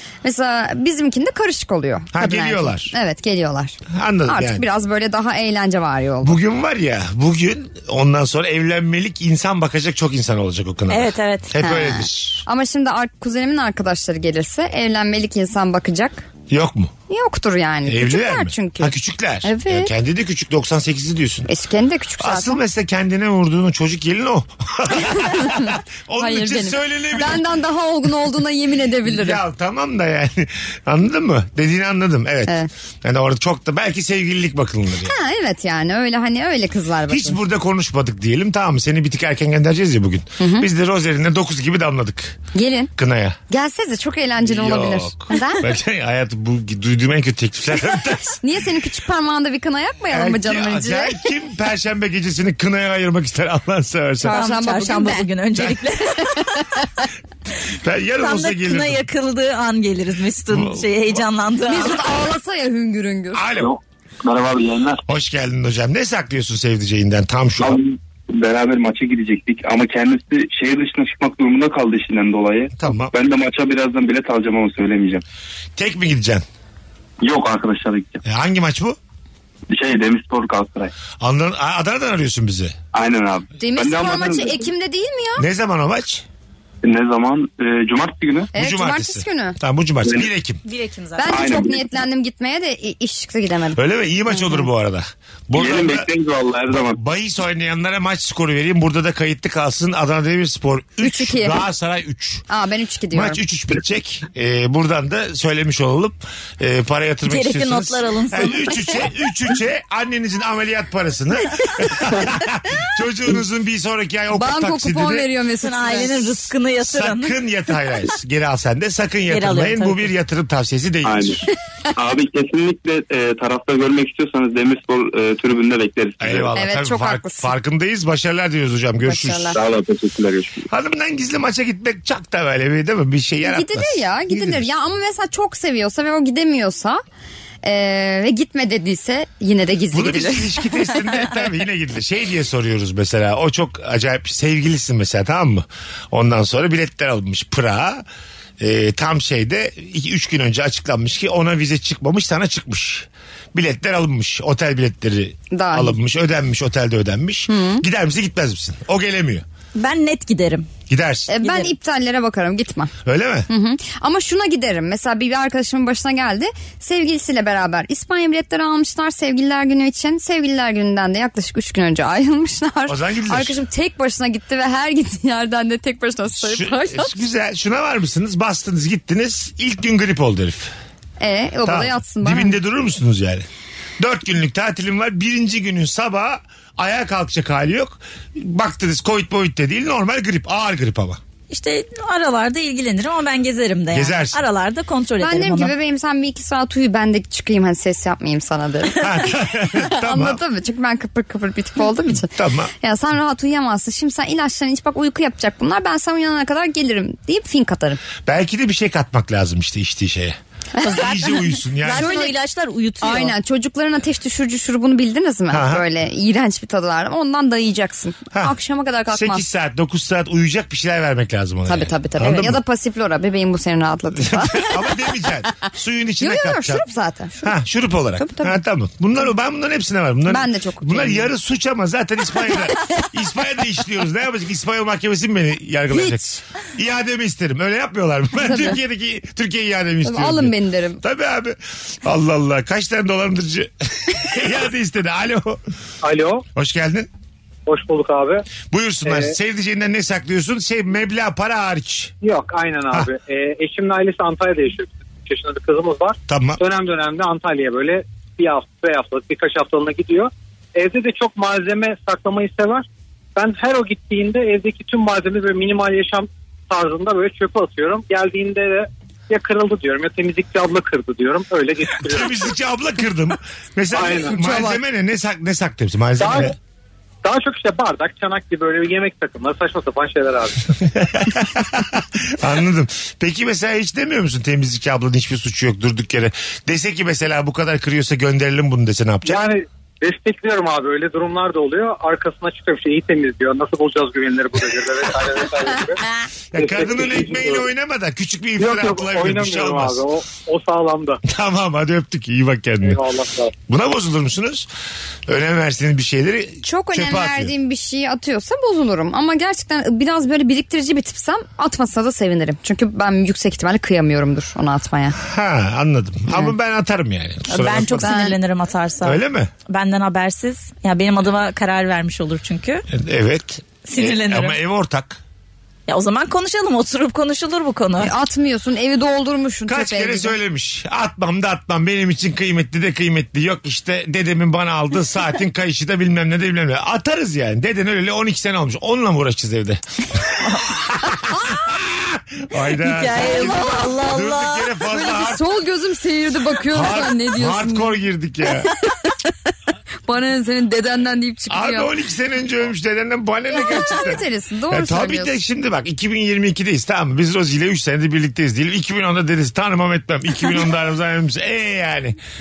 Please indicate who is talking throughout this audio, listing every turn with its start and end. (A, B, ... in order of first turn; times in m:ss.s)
0:00.2-0:06.4 A
0:02.1-0:02.9 B
0:03.9-0:04.7 B
0:06.2-0:12.4 B
0:10.9-0:11.5 C
0:11.6-0:16.3 A
0:16.5-0:16.9 B
0:17.1-0:19.9 A
0:17.9-0:21.5 B
0:21.5-0:22.6 A
0:22.2-0:27.4 B
0:25.0-0:29.4 A
0:29.0-0:35.1 B
0:35.0-0:37.4 A
0:37.1-0:42.4 B
0:40.4-0:40.7 A
0:42.5-0:42.9 A
0:43.0-0:43.4 B
0:43.5-0:45.7 A
0:44.4-0:48.4 B
0:48.3-0:51.2 A
0:50.1-0:54.4 B
0:54.2-0:55.3 A
0:54.3-0:56.6 C
0:56.4-0:56.6 A
0:57.7-0:59.0 B
0:58.2-1:02.0 C
1:00.5-1:00.9 B
1:01.7-1:03.4 A
1:03.3-1:03.8 B
1:03.6-1:05.0 D
1:05.1-1:07.8 B
1:07.6-1:15.2 D
1:12.8-1:13.1 B
1:15.8-1:16.4 B
1:17.2-1:18.2 D
1:18.2-1:19.0 B
1:19.7-1:20.9 D
1:21.2-1:22.8 B
1:22.9-1:24.7 D
1:23.6-1:25.4 A
1:25.4-1:26.2 B
1:26.8-1:28.5 D
1:28.5-1:29.6 A
1:28.6-1:30.6 B
1:30.0-1:30.3 D
1:30.6-1:31.5 C
1:31.2-1:34.7 A
1:31.3-1:31.8 D
1:33.8-1:36.1 B
1:35.5-1:37.0 D
1:36.7-1:42.4 B
1:41.0-1:41.6 A
1:42.5-1:43.4 A
1:43.1-1:55.3 B
1:47.3-1:48.9 C
1:54.4-1:56.5 A
1:55.6-1:57.3 C
1:56.8-2:01.5 B
1:59.3-2:00.1 C
2:01.0-2:01.4 D
2:02.0-2:06.6 D
2:06.2-2:09.6 B
2:06.6-2:07.5 A
2:09.1-2:09.6 A
2:09.5-2:10.7 D
2:10.7-2:14.6 B
2:13.4-2:17.0 A
2:17.6-2:20.6 A
2:19.9-2:28.0 B
2:28.6-2:39.4 B
2:35.5-2:36.0 A
2:37.5-2:37.8 A
2:39.8-2:40.7 C
2:40.9-2:41.3 B
2:41.3-2:42.9 A
2:41.4-2:41.7 C
2:43.0-2:43.5 B
2:43.5-2:57.1 A
2:52.9-2:53.5 B
2:56.3-3:00.7 B
3:01.2-3:02.6 A
3:01.6-3:03.5 B
3:04.0-3:11.2 B
3:11.5-3:15.7 C
3:13.9-3:14.4 B
3:15.2-3:28.0 A
3:19.0-3:20.4 B
3:22.3-3:22.7 B
3:28.3-3:30.4 B
3:30.8-3:33.4 C
3:30.9-3:32.2 B
3:32.0-3:32.3 A
3:33.0-3:39.4 A
3:35.5-3:35.8 B
3:39.1-3:42.6 B
3:41.7-3:44.8 A
3:44.2-3:46.8 B
3:46.2-3:47.5 A
3:47.4-4:05.6 B
3:48.2-3:48.6 A
3:50.3-3:51.3 A
3:55.9-3:56.2 A
3:58.4-3:58.8 A
4:00.0-4:01.0 A
4:06.0-4:06.4 E
4:06.6-4:07.1 B
4:07.7-4:08.4 E
4:08.7-4:12.2 B
4:09.0-4:09.4 E
4:12.2-4:32.4 E
4:16.3-4:16.6 B
4:32.0-4:36.6 B
4:33.9-4:34.4 E
4:34.3-4:34.8 A
4:36.2-4:36.5 E
4:37.2-4:40.9 E
4:41.0-4:49.4 B
4:49.3-4:56.0 E
4:56.5-5:00.0 B
4:56.6-4:57.6 E
4:58.6-5:01.2 E
5:01.2-5:03.0 B
5:02.9-5:03.5 E
5:03.7-5:04.7 B
5:05.3-5:07.5 B
5:06.6-5:15.2 A
5:15.2-5:18.2 B
5:17.5-5:22.8 C
5:18.0-5:18.3 A
5:19.0-5:19.5 B
5:22.9-5:25.2 B
5:23.8-5:24.6 C
5:25.9-5:28.1 C
5:28.0-5:30.4 A
5:29.7-5:39.8 B
5:40.5-5:45.4 B
5:42.8-5:44.7 C
5:43.2-5:44.0 A
5:44.9-5:47.9 A
5:46.7-5:48.7 B
5:50.1-5:51.9 A
5:51.5-6:02.2 B
5:53.6-5:55.4 A